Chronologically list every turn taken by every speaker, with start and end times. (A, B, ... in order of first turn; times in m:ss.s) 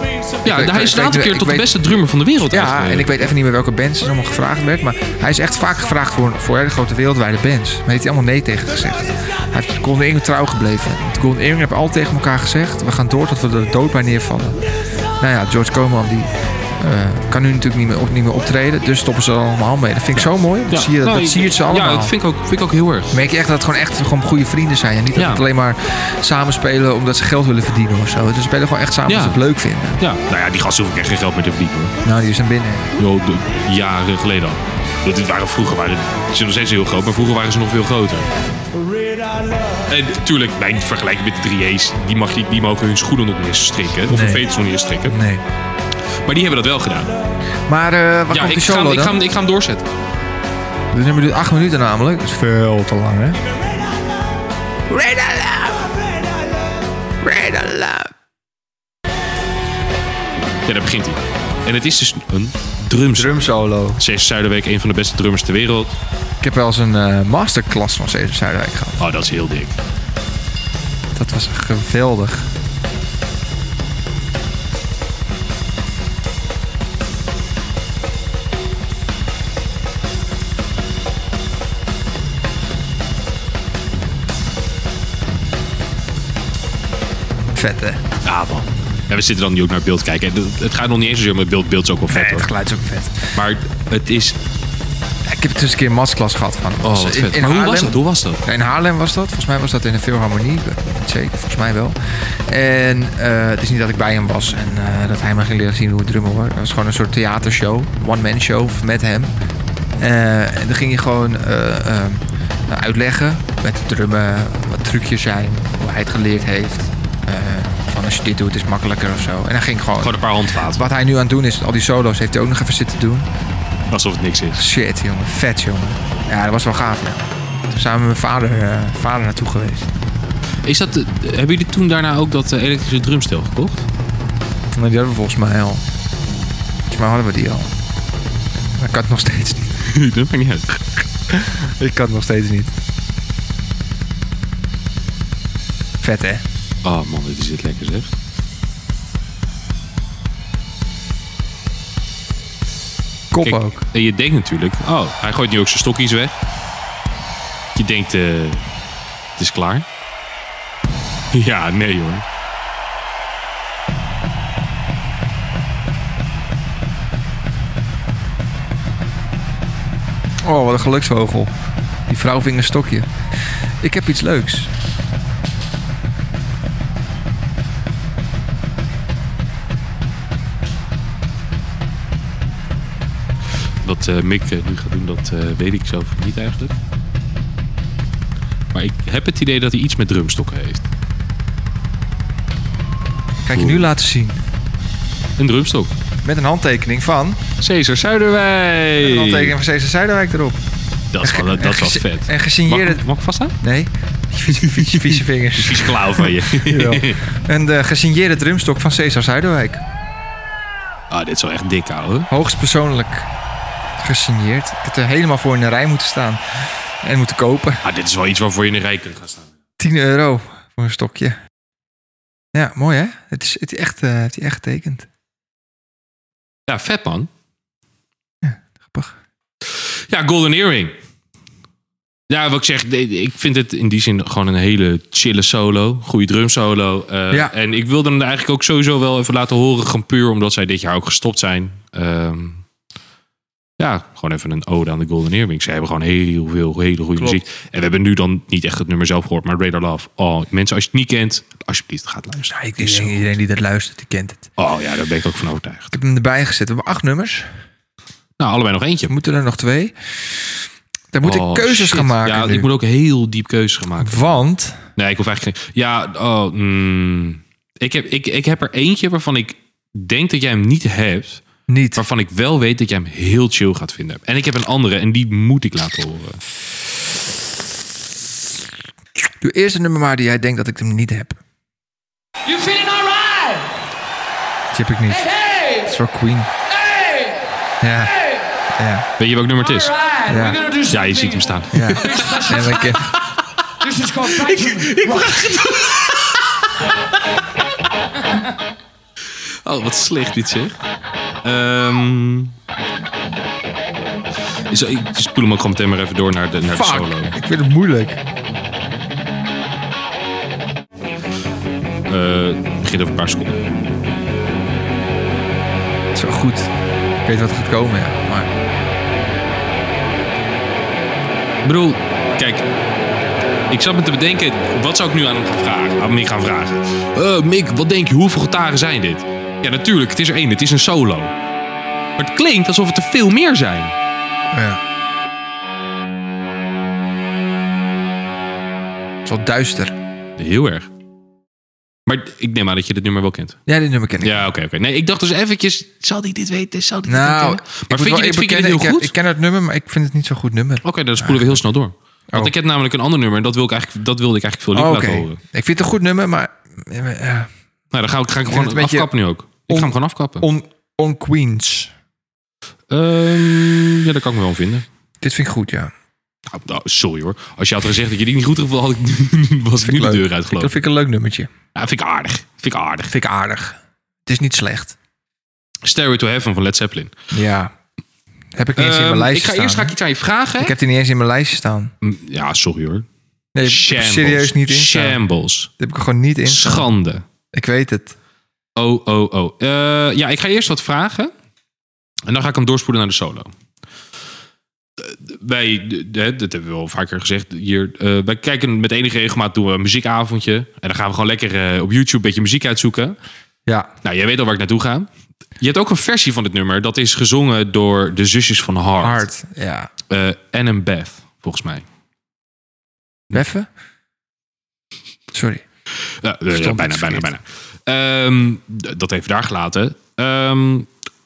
0:00.4-0:01.7 A
0:00.4-0:03.2 B
0:02.5-0:14.6 A
0:15.2-0:22.1 A
0:20.2-0:23.1 B
0:23.1-0:30.0 A
0:25.1-0:25.4 B
0:29.1-0:29.4 B
0:30.0-0:31.9 B
0:32.0-0:32.9 A
0:33.0-0:38.3 B
0:39.9-0:45.2 B
0:44.1-0:44.4 A
0:45.1-0:45.4 A
0:46.2-0:47.1 B
0:47.7-0:49.2 A
0:48.3-0:49.8 B
0:50.9-0:53.4 A
0:54.9-0:56.0 A
0:57.2-0:58.1 A
1:00.6-1:03.4 B
1:03.2-1:04.0 A
1:04.0-1:05.9 B
1:06.4-1:09.0 A
1:09.0-1:09.8 B
1:11.1-1:12.5 A
1:27.5-1:28.0 A
1:28.2-1:32.5 B
1:32.1-1:33.3 A
1:33.4-1:34.4 B
1:35.2-1:49.3 A
1:36.8-1:38.4 B
1:50.0-2:03.3 A
2:00.0-2:00.8 B
2:03.9-2:04.6 B
2:04.6-2:09.9 A
2:10.6-2:13.8 B
2:14.7-2:15.8 A
2:16.9-2:17.7 A
2:18.8-2:19.8 A
2:19.8-2:20.8 B
2:21.3-2:22.7 A
2:26.0-2:26.4 A
2:26.8-2:28.1 B
2:33.3-2:33.8 A
2:33.4-2:36.3 B
2:37.7-2:38.6 B
2:39.4-2:39.8 B
2:41.3-2:42.2 B
2:50.4-2:51.5 A
2:52.1-2:53.1 A
2:53.8-2:54.7 A
3:03.8-3:06.8 B
3:08.7-3:10.8 B
3:13.4-3:14.4 A
3:13.5-3:13.9 B
3:15.4-3:16.0 B
3:16.2-3:17.4 A
3:17.6-3:19.6 B
3:19.0-3:20.6 A
3:21.1-3:23.6 B
3:21.2-3:23.0 A
3:23.6-3:29.8 A
3:24.4-3:27.2 B
3:31.1-3:32.3 B
3:32.3-3:33.3 A
3:34.0-3:37.8 A
3:37.8-3:39.5 B
3:39.8-3:41.4 A
3:42.5-3:45.1 A
3:46.7-3:47.3 B
3:48.4-3:49.1 A
3:49.7-3:50.9 B
3:52.3-4:02.6 B
4:03.8-4:13.2 B
4:12.5-4:14.5 A
4:14.6-4:16.0 B
4:15.9-4:17.5 A
4:18.4-4:19.1 B
4:19.1-4:20.4 A
4:21.1-4:22.7 A
4:21.2-4:24.4 B
4:24.0-4:24.8 A
4:24.9-4:31.4 B
4:31.7-4:32.0 A
4:32.0-4:36.4 B
4:39.4-4:41.4 A
4:42.4-4:43.7 C
4:44.7-4:46.5 A
4:45.1-4:45.9 C
4:46.7-4:47.5 C
4:47.8-4:48.2 A
4:48.8-4:49.1 A
4:49.2-4:50.0 B
4:49.7-4:53.0 C
4:50.2-4:50.6 A
4:50.9-4:52.7 B
4:51.7-4:53.1 A
4:53.8-4:55.5 C
4:54.2-4:56.7 B
4:59.6-5:00.8 B
5:01.4-5:02.5 B
5:04.7-5:07.3 B
5:06.7-5:08.2 A
5:12.1-5:13.6 B
5:16.1-5:16.7 A
5:17.2-5:18.5 A
5:21.6-5:22.6 B
5:23.7-5:31.3 B
5:32.2-5:34.0 B
5:34.5-5:34.8 A
5:39.2-5:39.9 A
5:40.4-5:40.9 B
5:42.0-5:43.6 B
5:43.7-5:44.4 A
5:44.2-5:49.1 B
5:47.1-5:51.6 A
5:50.8-5:55.4 B
5:54.7-5:57.5 A
5:57.9-6:00.5 B
5:58.5-5:59.1 A
5:59.7-6:01.9 A
6:02.9-6:04.8 B
6:05.2-6:05.9 A
6:06.5-6:10.7 B
6:09.8-6:11.5 A
6:11.7-6:13.1 B
6:13.1-6:15.0 A
6:15.8-6:17.1 B
6:17.3-6:17.7 A
6:18.5-6:20.0 A
6:18.8-6:20.8 B
6:20.6-6:21.9 A
6:22.0-6:23.0 B
6:23.5-6:25.2 A
6:23.6-6:25.7 B
6:25.8-6:26.9 A
6:26.4-6:27.2 B
6:27.5-6:28.1 A
6:28.8-6:31.3 B
6:32.2-6:33.5 B
6:35.0-6:43.2 B
6:44.0-6:45.1 B
6:45.6-6:49.3 B
6:49.0-6:49.9 A
6:50.1-6:51.8 B
6:53.3-6:53.7 A
6:55.3-6:55.6 A
6:56.2-7:00.9 B
6:56.5-6:57.3 A